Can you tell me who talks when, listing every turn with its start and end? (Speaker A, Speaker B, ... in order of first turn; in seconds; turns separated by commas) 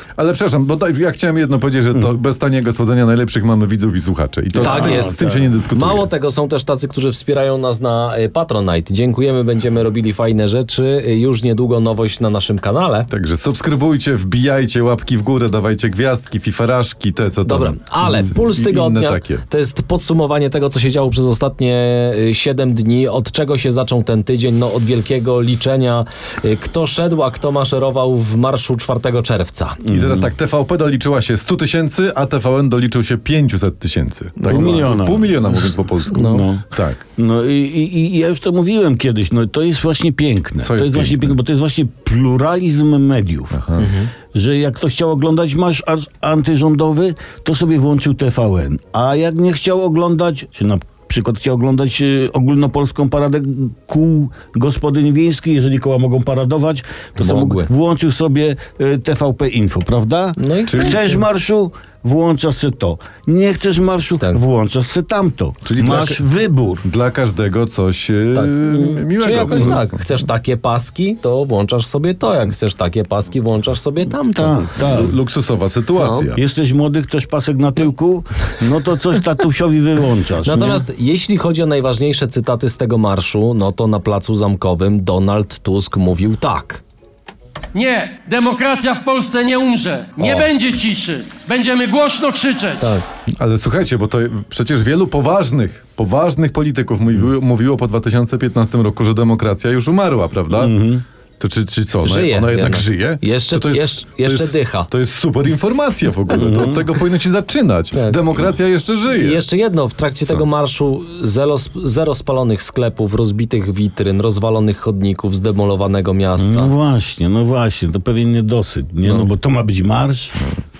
Speaker A: 0.1-6.1, Speaker B: 4.5-5.6, Speaker C: 4.6-5.2, Speaker C: 5.7-13.1, Speaker A: 13.1-19.4, Speaker C: 17.4-29.8, Speaker B: 29.8-30.3, Speaker A: 29.9-37.0, Speaker C: 34.4-34.9, Speaker B: 34.5-35.4, Speaker C: 36.1-36.5, Speaker B: 36.1-43.6, Speaker A: 40.6-41.4, Speaker A: 43.5-43.9, Speaker C: 43.8-44.1, Speaker B: 44.3-66.8, Speaker C: 57.2-57.7, Speaker C: 60.4-61.2, Speaker A: 60.6-61.0, Speaker A: 65.6-66.2, Speaker A: 66.8-70.0, Speaker C: 68.3-74.7, Speaker B: 74.3-75.2, Speaker A: 74.8-76.4, Speaker C: 76.0-76.3, Speaker B: 76.3-80.8, Speaker C: 80.4-86.8, Speaker D: 87.7-93.0, Speaker A: 93.4-100.8, Speaker B: 100.5-101.0, Speaker A: 101.4-109.4, Speaker C: 102.0-104.9, Speaker B: 106.3-106.8, Speaker C: 107.9-108.3, Speaker C: 109.1-116.7, Speaker B: 116.4-120.4